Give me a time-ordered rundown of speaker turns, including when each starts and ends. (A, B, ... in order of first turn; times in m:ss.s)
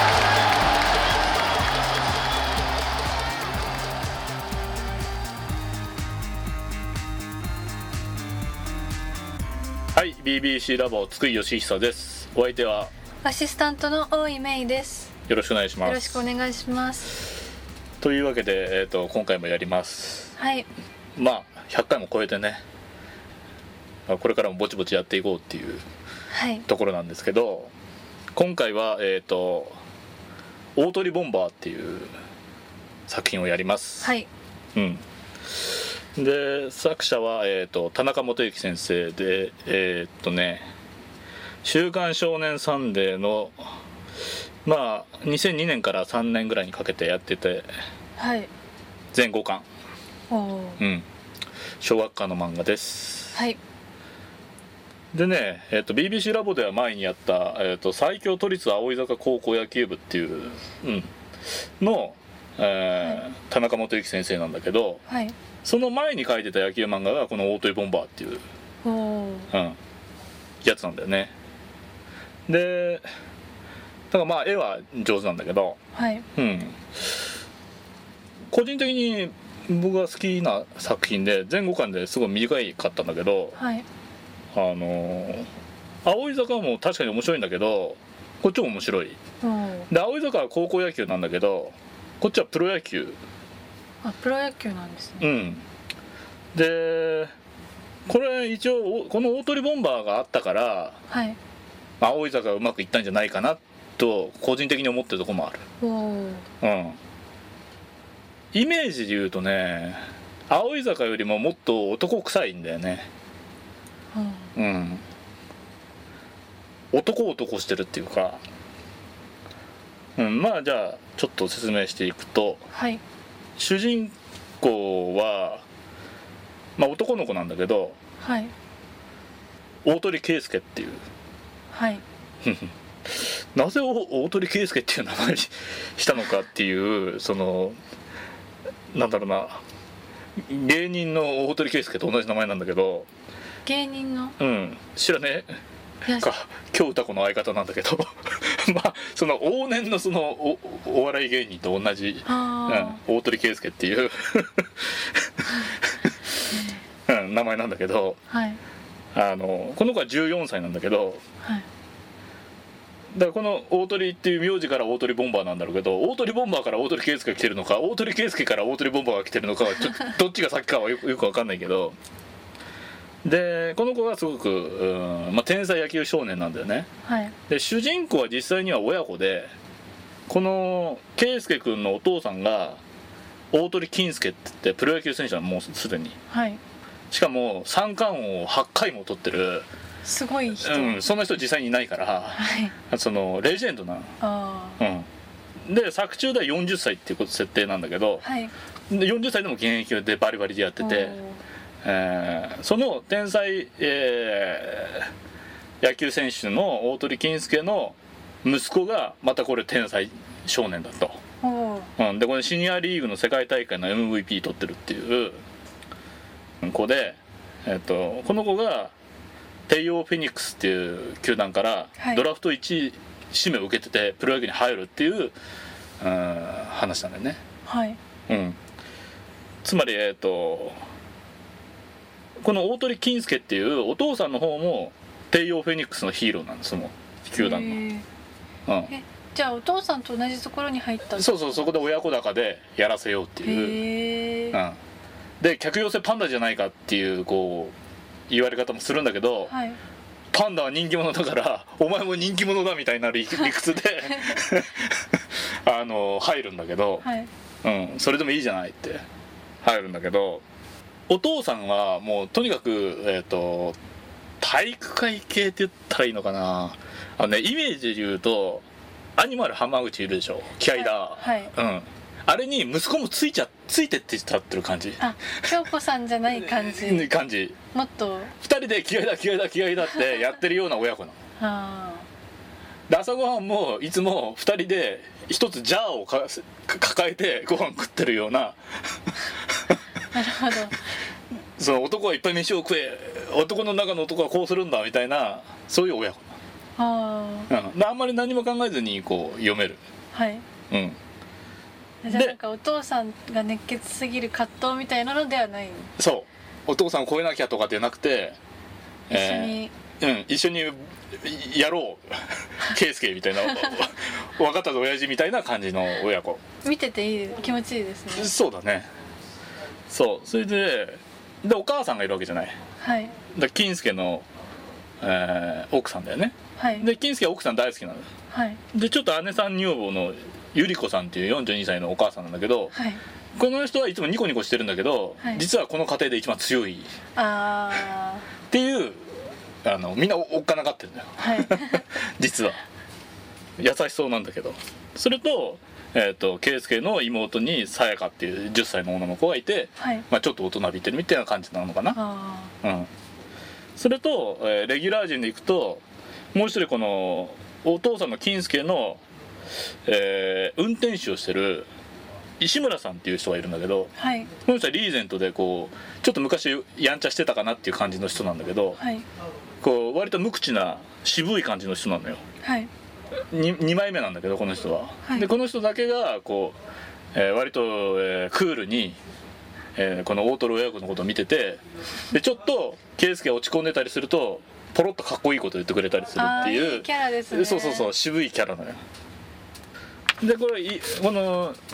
0:10.0-0:12.9 A
0:13.2-0:15.1 B
0:15.3-0:16.2 A
0:15.8-0:17.2 B
0:18.0-0:20.3 A
0:20.4-0:20.7 B
0:21.2-0:22.6 A
0:24.1-0:25.8 A
0:26.3-0:26.6 B
0:26.7-0:27.7 A
0:28.4-0:29.8 A
0:30.8-0:32.1 A
0:33.1-0:34.1 A
0:34.0-0:34.3 B
0:34.8-0:35.0 A
0:36.2-0:40.7 A
0:41.6-0:43.6 A
0:44.6-0:47.7 A
0:48.2-0:48.5 B
0:49.1-0:49.7 A
0:50.3-0:50.8 B
0:50.8-0:51.1 A
0:51.8-0:53.4 A
0:53.3-0:53.6 B
0:55.1-1:01.1 A
1:01.8-1:05.0 A
1:05.1-1:05.4 B
1:05.6-1:08.4 A
1:08.8-1:09.5 B
1:09.5-1:09.8 A
1:10.6-1:11.3 A
1:12.5-1:13.1 A
1:14.1-1:15.8 A
1:15.9-1:16.3 B
1:16.4-1:16.8 A
1:18.5-1:23.6 A
1:23.6-1:23.9 B
1:24.5-1:25.5 A
1:26.0-1:29.2 A
1:29.4-1:29.9 B
1:29.9-1:33.2 A
1:34.0-1:35.3 B
1:35.2-1:35.6 A
1:36.5-1:37.3 A
1:38.1-1:41.0 A
1:41.1-1:41.4 B
1:42.0-1:45.6 A
1:45.8-1:46.5 B
1:46.6-1:47.0 A
1:48.5-1:53.1 A
1:54.1-1:54.5 B
1:54.6-1:55.0 A
1:56.9-1:58.4 A
2:00.2-2:02.6 A
2:02.7-2:03.0 B
2:03.6-2:05.6 A
2:06.8-2:08.0 A
2:08.2-2:08.5 B
2:09.8-2:11.0 A
2:11.7-2:12.0 B
2:12.4-2:17.8 A
2:18.9-2:19.6 A
2:20.4-2:23.1 A
2:23.6-2:24.4 B
2:24.4-2:25.5 A
2:26.1-2:26.3 B
2:26.2-2:35.7 A
2:32.3-2:33.0 B
2:36.5-2:36.8 B
2:37.1-2:38.2 A
2:38.3-2:38.6 B
2:39.1-2:41.2 A
2:43.1-2:52.0 A
2:53.2-2:56.9 A
2:57.0-2:57.4 B
2:57.5-2:59.5 A
3:00.3-3:02.8 A
3:03.5-3:06.2 A
3:06.3-3:06.6 B
3:07.1-3:09.7 A
3:10.0-3:11.0 B
3:10.6-3:14.2 A
3:12.4-3:12.7 B
3:14.2-3:14.8 B
3:14.8-3:15.1 A
3:15.7-3:18.2 A
3:18.2-3:18.5 B
3:18.9-3:21.2 A
3:20.8-3:21.4 B
3:21.8-3:25.1 A
3:25.8-3:31.2 A
3:31.4-3:31.9 B
3:32.0-3:35.4 A
3:36.6-3:38.9 A
3:39.7-3:45.4 A
3:46.0-3:47.4 A
3:47.7-3:48.0 B
3:48.3-3:48.6 A
3:49.6-3:50.8 A
3:52.4-3:57.8 A
3:57.4-3:58.0 B
3:58.7-3:58.9 A
3:58.9-4:01.8 B
4:01.2-4:03.8 A
4:03.4-4:04.6 B
4:04.5-4:04.8 A
4:05.4-4:07.7 A
4:08.3-4:09.5 A
4:09.5-4:09.8 B
4:10.3-4:17.1 A
4:14.1-4:14.4 B
4:17.0-4:17.3 B
4:17.6-4:19.0 A
4:19.6-4:20.4 A
4:21.1-4:23.8 A
4:24.4-4:28.6 A
4:29.2-4:35.5 A
4:30.7-4:31.5 B
4:35.0-4:37.1 B
4:36.3-4:37.6 A
4:37.7-4:38.3 B
4:38.4-4:41.2 A
4:41.4-4:42.1 B
4:42.9-4:48.6 A
4:50.1-4:50.8 B
4:51.6-4:56.3 A
4:56.8-4:57.5 B
4:57.5-4:59.8 A
5:00.1-5:00.5 B
5:00.7-5:01.0 A
5:02.0-5:05.9 B
5:02.1-5:02.4 A
5:06.0-5:08.4 A
5:09.1-5:16.4 A
5:09.1-5:09.7 B
5:16.6-5:18.3 B
5:18.2-5:18.9 A
5:19.9-5:22.6 A
5:22.8-5:23.2 B
5:23.3-5:24.3 A
5:25.0-5:28.1 A
5:26.6-5:26.9 B
5:28.3-5:28.6 B
5:28.7-5:32.8 A
5:32.7-5:33.0 B
5:33.4-5:36.9 A
5:37.2-5:38.3 B
5:38.5-5:39.1 A
5:39.6-5:42.6 A
5:41.2-5:41.8 B
5:43.6-5:52.0 A
5:49.8-5:50.0 B
5:51.9-5:52.5 B
5:52.6-5:52.9 A
5:53.8-5:55.8 A
5:56.3-5:59.0 A
5:59.9-6:01.7 A
6:02.4-6:08.8 A
6:04.0-6:04.3 B
6:08.8-6:09.1 B
6:09.6-6:12.2 A
6:12.4-6:12.7 B
6:13.3-6:16.6 A
6:15.0-6:15.3 B
6:17.1-6:19.0 A
6:19.8-6:28.8 A
6:26.2-6:27.9 B
6:30.2-6:31.6 A